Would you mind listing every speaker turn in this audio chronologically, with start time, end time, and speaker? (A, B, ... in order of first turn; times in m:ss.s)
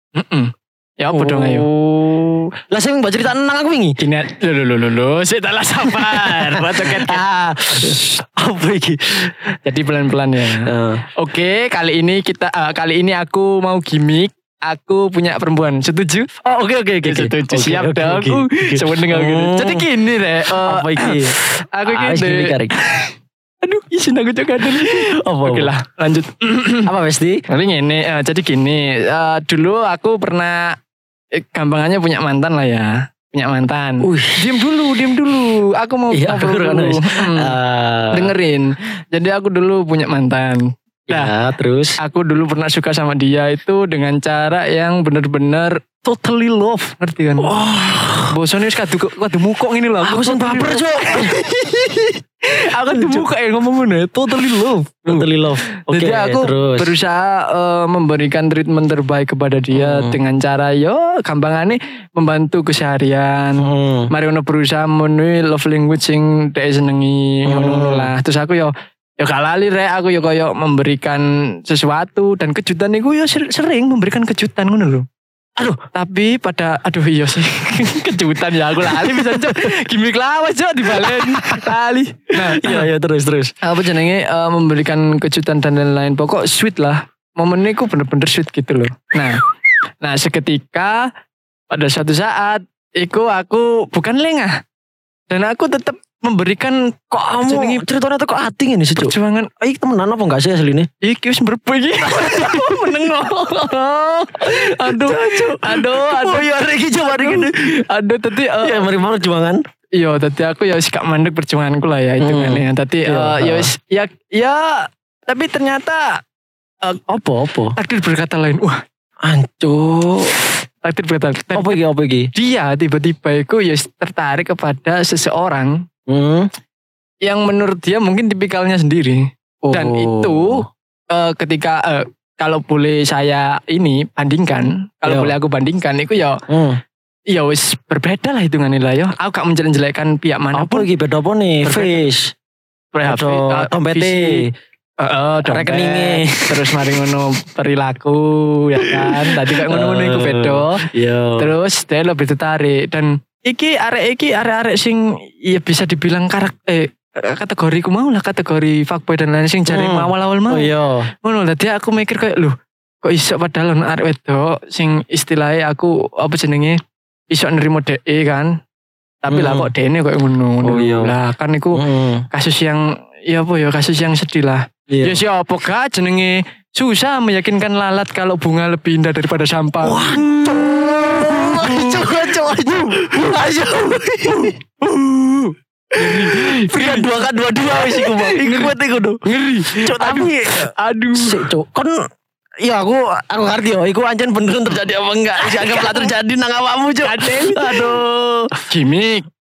0:00.2-0:01.7 A
0:01.1-0:04.0 B
0:04.0-0:07.2 A
0:05.9-0:09.4 B
0:09.6-0:16.3 A
0:10.6-0:11.0 B
0:16.4-0:19.9 B
0:17.0-0:26.9 A
0:20.4-0:22.8 B
0:24.6-0:25.7 B
0:26.8-0:27.4 B
0:27.5-0:30.8 A
0:31.4-0:37.6 A
0:34.0-0:34.6 B
0:36.1-0:38.3 B
0:38.1-0:41.3 A
0:41.1-0:42.0 B
0:42.0-0:47.5 A
0:47.4-0:48.4 B
0:48.3-1:15.1 A
0:50.0-0:51.4 B
0:52.9-0:53.3 B
0:55.0-0:56.9 B
0:59.7-1:00.2 B
1:03.6-1:04.1 B
1:07.5-1:08.1 B
1:15.9-1:22.9 A
1:18.8-1:19.8 B
1:20.9-1:21.8 B
1:22.4-1:23.5 B
1:23.6-1:29.4 A
1:30.0-1:31.1 A
1:31.7-1:34.6 A
1:35.3-1:37.8 A
1:37.1-1:40.9 B
1:39.0-1:39.5 A
1:41.0-1:48.9 A
1:42.0-1:43.1 B
1:44.4-1:47.6 B
1:48.6-1:49.6 B
1:50.0-1:56.2 A
1:52.2-1:53.7 B
1:57.1-1:57.8 B
1:57.8-1:58.8 A
1:59.2-2:00.4 B
2:00.8-2:01.8 A
2:01.5-2:02.3 B
2:02.3-2:05.8 A
2:06.1-2:06.5 B
2:07.2-2:16.4 A
2:09.7-2:10.6 B
2:15.1-2:15.3 B
2:16.5-2:16.8 B
2:17.3-2:20.9 A
2:20.5-2:22.3 B
2:21.6-2:22.0 A
2:22.9-2:24.4 A
2:23.0-2:24.5 B
2:25.0-2:30.9 A
2:25.4-2:26.7 B
2:28.8-2:31.5 B
2:31.4-2:40.7 A
2:39.7-2:41.1 B
2:41.2-2:46.8 A
2:47.3-2:48.6 A
2:49.2-3:00.2 A
2:49.3-2:49.7 B
2:50.6-2:51.1 B
2:51.7-2:52.3 B
2:54.9-2:55.2 B
2:59.8-3:04.6 B
3:01.1-3:03.3 A
3:04.3-3:07.1 A
3:05.9-3:12.0 B
3:07.7-3:11.5 A
3:12.6-3:18.6 B
3:15.4-3:16.1 A
3:17.0-3:18.0 A
3:18.7-3:19.3 A